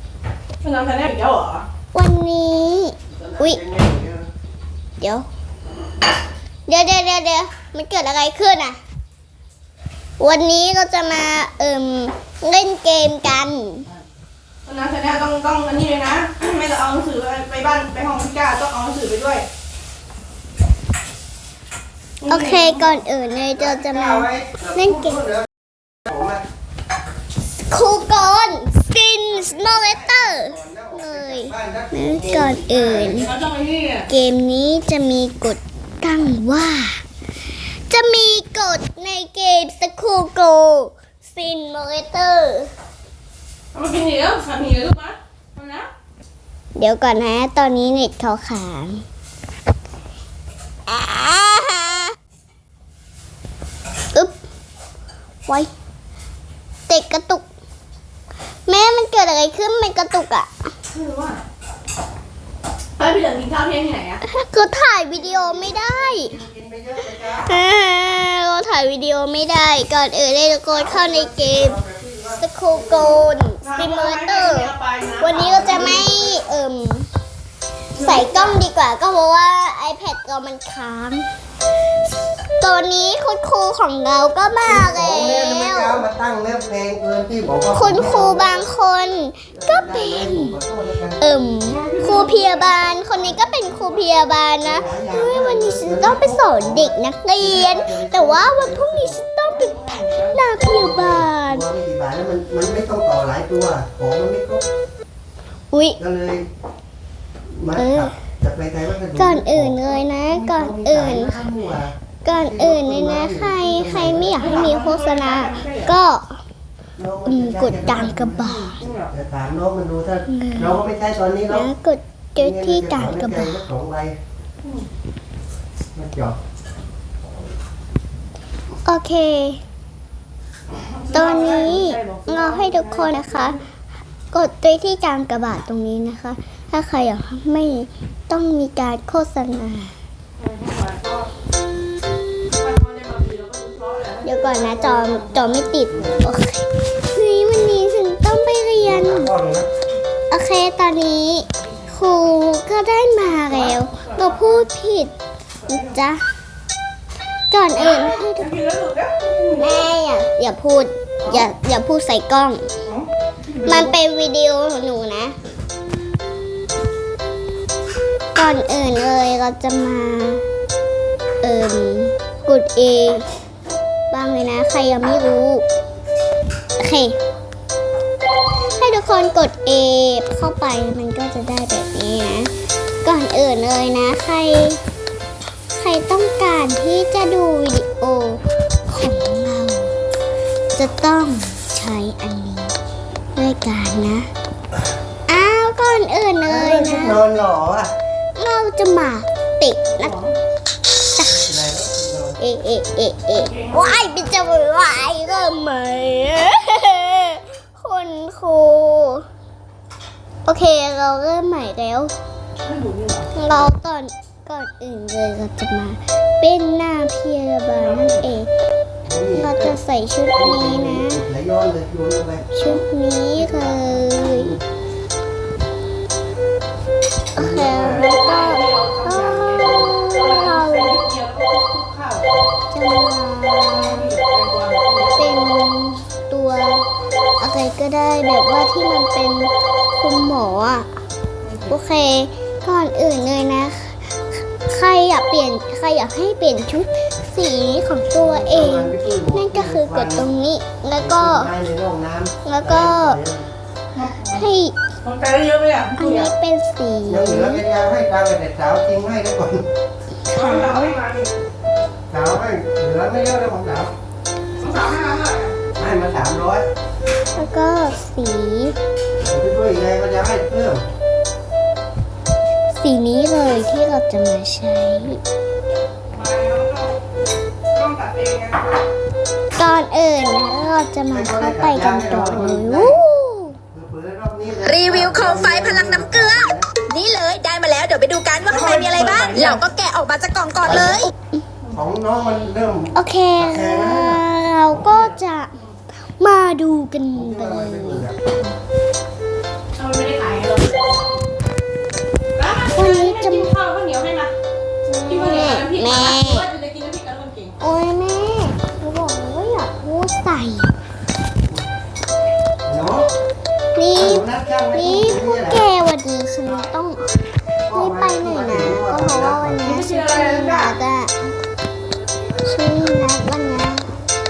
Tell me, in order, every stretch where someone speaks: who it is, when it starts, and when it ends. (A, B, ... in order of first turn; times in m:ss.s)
0:00.6-0:01.6 A
0:01.9-0:03.6 B
0:03.1-0:04.3 C
0:05.0-0:05.2 B
0:06.7-0:08.8 B
0:10.2-0:13.8 B
0:14.6-0:19.4 A
0:22.2-0:23.0 A
0:22.3-0:25.2 B
0:23.6-0:25.5 C
0:26.0-0:26.4 C
0:27.7-0:33.3 B
0:29.3-0:33.3 C
0:33.1-0:34.1 A
0:34.1-0:37.0 B
0:37.6-0:42.7 B
0:43.7-0:45.9 A
0:46.8-0:49.0 B
0:50.8-0:52.2 B
0:56.9-0:57.4 B
0:58.7-1:00.5 B
1:00.9-1:01.4 A
1:03.0-1:04.2 A
1:04.3-1:06.4 B
1:05.1-1:07.5 C
1:07.3-1:11.8 B
1:10.7-1:13.2 C
1:12.4-1:17.1 B
1:13.6-1:16.1 A
1:17.9-1:18.6 A
1:18.0-1:21.3 B
1:22.6-1:26.0 B
1:24.6-1:28.6 C
1:27.7-1:30.6 B
1:29.5-1:31.2 C
1:31.2-1:41.6 B
1:31.6-1:34.1 A
1:34.6-1:39.2 C
1:39.4-1:40.5 A
1:40.6-1:44.6 C
1:45.7-1:46.0 B
1:46.0-1:46.5 C
1:47.5-1:54.6 C
1:47.7-1:48.1 B
1:49.1-1:51.4 B
1:52.2-1:56.4 B
1:54.4-1:55.9 A
1:57.0-2:01.7 C
1:57.2-1:58.8 B
1:58.4-1:59.1 A
2:00.3-2:00.8 B
2:01.5-2:03.6 B
2:02.4-2:04.2 C
2:05.9-2:06.4 C
2:08.8-2:09.6 B
2:10.7-2:13.6 A
2:11.1-2:13.6 B
2:14.3-2:19.9 B
2:20.4-2:21.3 A
2:22.6-2:26.2 A
2:24.2-2:29.3 B
2:28.8-2:29.7 C
2:30.3-2:35.1 B
2:31.5-2:32.2 A
2:33.2-2:34.6 A
2:35.6-2:36.0 A
2:35.7-2:36.2 B
2:37.5-2:38.5 B
2:37.8-2:39.9 A
2:39.6-2:42.7 B
2:42.8-2:44.0 A
2:43.6-2:45.4 B
2:48.3-2:50.4 B
2:51.4-2:53.2 B
2:54.1-2:55.6 B
2:56.8-2:57.2 B
2:58.8-3:02.5 B
3:03.0-3:04.8 B
3:05.7-3:09.9 B
3:10.7-3:12.8 B
3:13.4-3:14.3 B
3:15.3-3:17.2 B
3:16.4-3:17.9 C
3:18.4-3:20.1 B
3:19.9-3:20.4 A
3:21.2-3:21.4 B
3:21.2-3:22.4 C
3:22.4-3:29.2 B
3:23.3-3:24.0 A
3:30.4-3:32.1 B
3:32.6-3:33.6 A
3:33.3-3:38.5 B
3:37.7-3:38.3 A
3:39.0-3:39.8 C
3:39.4-3:41.2 B
3:40.4-3:42.5 C
3:42.5-3:44.6 B
3:43.4-3:44.6 C
3:47.3-3:51.0 B
3:47.4-3:48.1 C
3:47.8-3:52.6 A
3:49.6-3:49.9 C
3:52.7-3:54.1 B
3:53.7-3:55.5 A
3:55.1-3:56.8 B
3:57.4-4:00.9 B
4:01.4-4:01.8 A
4:01.7-4:04.0 B
4:04.6-4:11.5 B
4:08.2-4:10.3 C
4:11.0-4:13.5 C
4:12.4-4:13.2 B
4:13.9-4:14.5 A
4:14.3-4:14.8 B
4:15.0-4:16.3 A
4:16.0-4:17.6 B
4:17.1-4:19.6 C
4:20.3-4:21.0 B
4:20.3-4:21.3 A
4:22.1-4:23.9 C
4:24.6-4:25.6 A
4:25.7-4:26.7 C
4:27.3-4:28.8 B
4:29.2-4:30.8 C
4:32.7-4:35.2 B
4:36.1-4:37.0 A
4:37.7-4:38.7 A
4:39.5-4:43.6 B
4:41.1-4:43.0 C
4:43.7-4:46.7 C
4:44.6-4:51.1 D
4:48.4-4:49.6 A
4:50.6-4:51.0 C
4:51.7-4:55.2 C
4:52.9-4:55.6 B
4:56.2-4:58.1 B
4:57.1-4:58.2 C
4:59.8-5:01.2 A
5:02.4-5:04.3 A
5:02.7-5:03.5 B
5:04.9-5:06.5 B
5:05.0-5:07.6 A
5:07.6-5:10.7 B
5:12.6-5:13.1 C
5:13.7-5:17.1 B
5:13.9-5:15.6 C
5:17.7-5:19.7 C
5:17.7-5:21.3 B
5:19.6-5:20.8 A
5:22.4-5:24.0 B